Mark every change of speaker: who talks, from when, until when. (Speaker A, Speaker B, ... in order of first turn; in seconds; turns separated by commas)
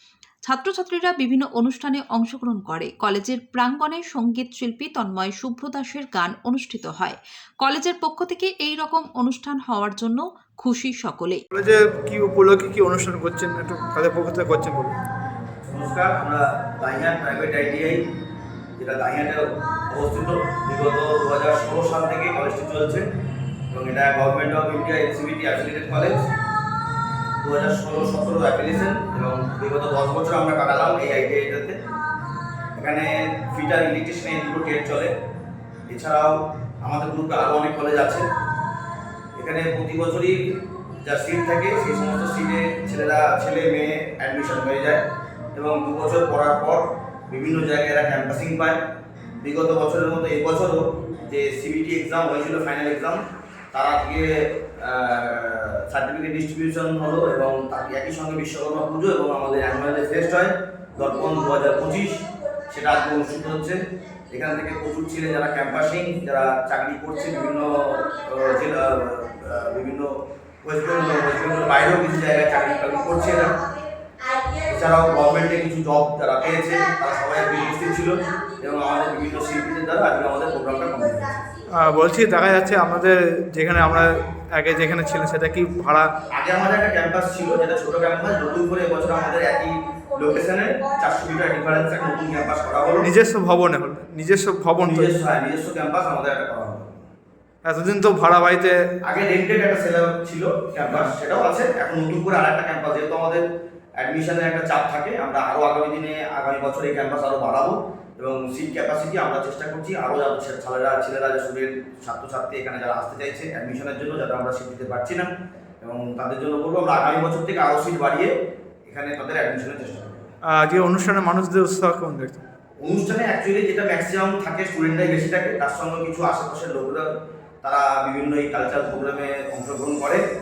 Speaker A: 0.4-11.4, Speaker B: 11.5-15.0, Speaker C: 15.7-18.0, Speaker C: 18.8-23.1, Speaker C: 23.7-26.2, Speaker C: 27.4-31.8, Speaker C: 32.7-35.1, Speaker C: 35.9-38.2, Speaker C: 39.4-40.4, Speaker C: 41.0-45.0, Speaker C: 45.5-48.8, Speaker C: 49.4-53.2, Speaker C: 53.7-73.6, Speaker C: 74.7-81.3, Speaker B: 81.7-86.1, Speaker C: 86.3-93.1, Speaker B: 93.0-95.1, Speaker C: 94.8-96.9, Speaker B: 97.6-98.8, Speaker C: 99.0-103.4, Speaker C: 104.0-115.3, Speaker C: 115.8-118.3, Speaker C: 118.8-120.2, Speaker B: 120.5-122.4, Speaker C: 122.8-127.1, Speaker C: 127.6-130.2